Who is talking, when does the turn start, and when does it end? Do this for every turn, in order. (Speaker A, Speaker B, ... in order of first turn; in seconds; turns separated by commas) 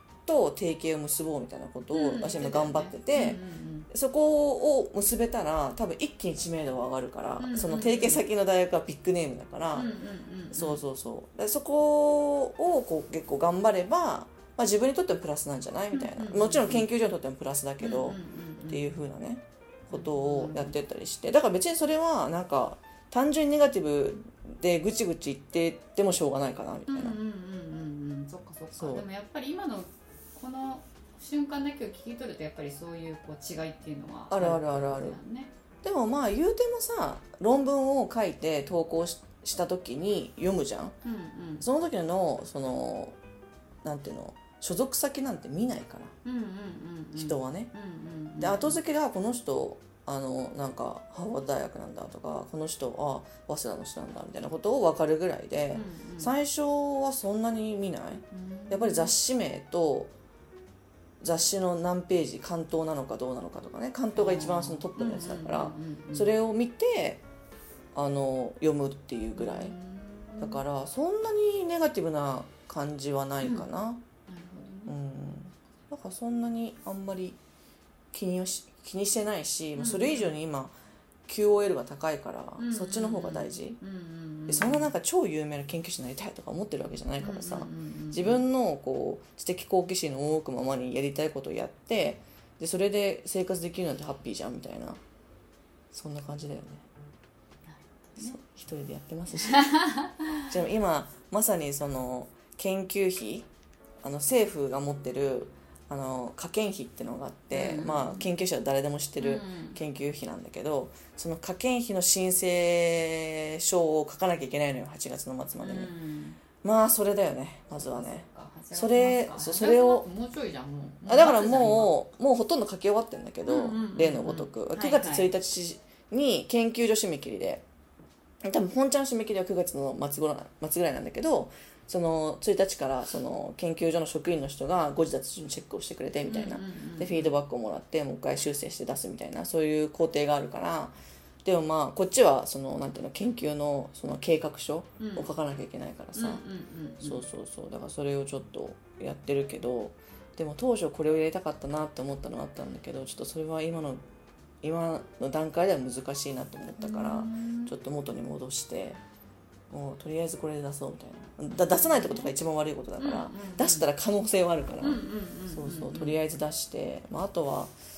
Speaker A: 0.2-9.9, Speaker B: 1.9-3.9, Speaker B: 7.4-8.2, Speaker B: 9.7-10.8, Speaker A: 10.5-27.2, Speaker B: 15.9-16.9, Speaker B: 17.8-18.9, Speaker B: 19.9-20.8, Speaker B: 26.9-35.5, Speaker A: 28.7-29.0, Speaker A: 34.3-35.2, Speaker A: 35.8-41.0, Speaker B: 41.0-41.7, Speaker A: 41.6-43.2, Speaker A: 43.8-46.1, Speaker B: 46.2-48.8, Speaker A: 47.1-47.7, Speaker A: 48.4-60.1, Speaker B: 55.7-56.3, Speaker B: 58.3-59.1, Speaker A: 61.2-67.2, Speaker B: 64.2-66.3, Speaker A: 67.9-69.8, Speaker B: 69.3-70.6, Speaker A: 70.4-74.0, Speaker B: 73.4-73.7, Speaker B: 74.3-74.9, Speaker A: 74.9-77.4, Speaker A: 78.1-80.7, Speaker B: 79.8-80.3, Speaker A: 81.3-83.8, Speaker B: 82.6-84.9, Speaker A: 84.5-95.0, Speaker B: 87.2-88.4, Speaker A: 95.9-96.8, Speaker B: 97.7-98.4, Speaker A: 98.2-99.7, Speaker B: 99.4-100.5, Speaker A: 100.5-103.5, Speaker A: 104.0-115.9, Speaker B: 107.5-108.3, Speaker B: 109.2-109.8, Speaker B: 115.6-116.4, Speaker A: 116.6-120.1, Speaker B: 117.8-121.9, Speaker A: 121.1-127.6, Speaker B: 123.5-125.3, Speaker A: 128.4-146.4, Speaker B: 136.2-137.3, Speaker B: 145.0-145.3, Speaker B: 146.2-147.3, Speaker A: 147.0-154.0, Speaker A: 154.6-159.0, Speaker B: 156.8-157.7, Speaker A: 159.7-167.7, Speaker B: 161.5-162.3, Speaker B: 163.0-163.9, Speaker B: 164.8-166.2